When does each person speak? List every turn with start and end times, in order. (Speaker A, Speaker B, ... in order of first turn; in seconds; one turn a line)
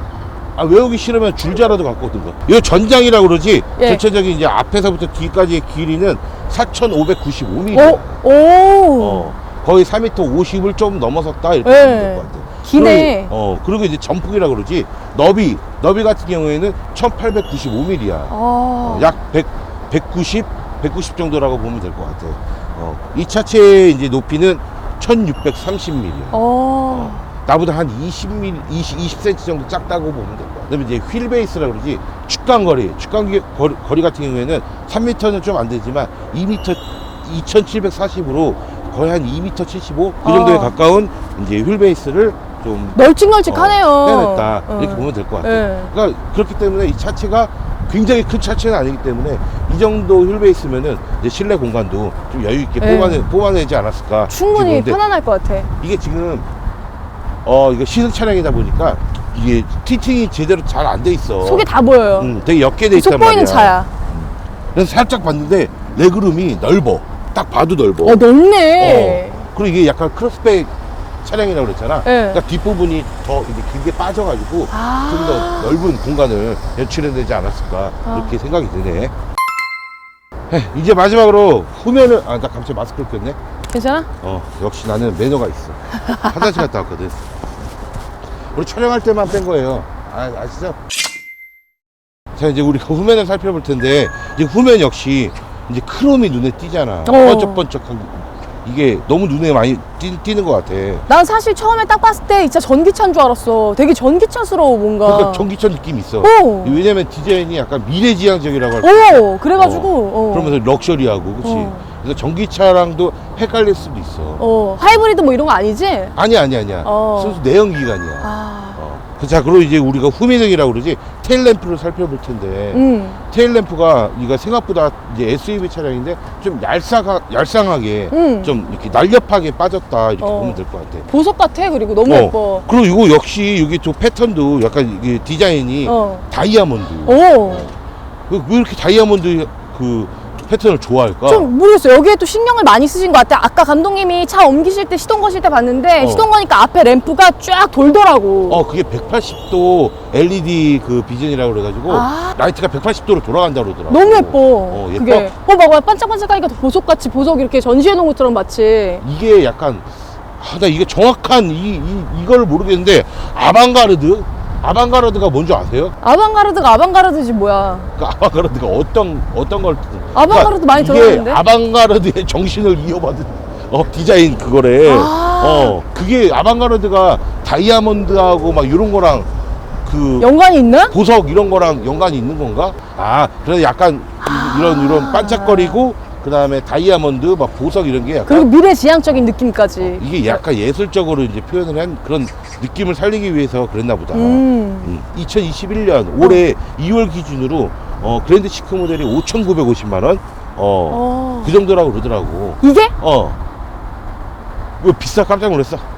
Speaker A: 0.6-8.2
Speaker B: 3.8-4.0
Speaker B: 7.7-9.3
Speaker A: 9.0-26.4
Speaker B: 11.6-13.3
Speaker B: 18.3-19.1
Speaker B: 26.3-27.2
Speaker A: 26.9-55.0
Speaker B: 40.2-40.7
Speaker B: 42.9-45.9
Speaker B: 52.8-53.3
Speaker B: 54.3-55.7
Speaker A: 55.8-56.5
Speaker A: 57.4-61.6
Speaker B: 61.4-62.3
Speaker A: 62.2-68.2
Speaker B: 62.9-63.9
Speaker B: 68.0-69.5
Speaker A: 68.8-70.7
Speaker A: 71.2-79.1
Speaker B: 72.0-72.4
Speaker B: 74.7-75.8
Speaker B: 78.0-78.3
Speaker A: 80.5-83.4
Speaker B: 83.7-84.1
Speaker A: 84.2-87.2
Speaker A: 88.5-90.8
Speaker A: 92.3-101.0
Speaker B: 97.0-97.6
Speaker B: 101.1-105.5
Speaker A: 105.0-114.4
Speaker B: 106.2-106.8
Speaker B: 108.8-110.5
Speaker B: 111.4-111.8
Speaker B: 114.4-116.2
Speaker A: 116.2-131.1
Speaker B: 116.8-117.4
Speaker B: 118.2-118.8
Speaker B: 122.7-123.2
Speaker B: 128.1-128.5
Speaker B: 130.2-132.7
Speaker A: 132.1-137.7
Speaker B: 135.8-136.2
Speaker B: 137.1-137.7
Speaker A: 138.3-141.5
Speaker B: 141.2-148.6
Speaker A: 146.0-146.3
Speaker A: 148.5-155.3
Speaker B: 151.9-152.4
Speaker B: 153.9-159.0
Speaker A: 159.0-165.9
Speaker B: 166.0-167.9
Speaker A: 167.9-179.3
Speaker B: 170.1-171.4
Speaker B: 174.8-175.8
Speaker A: 179.8-180.3
Speaker B: 180.2-180.9
Speaker A: 180.9-188.5
Speaker B: 184.2-185.8
Speaker B: 188.2-190.4
Speaker A: 189.8-203.4
Speaker B: 194.1-194.9
Speaker B: 200.9-201.6
Speaker B: 202.6-202.9
Speaker A: 204.8-205.8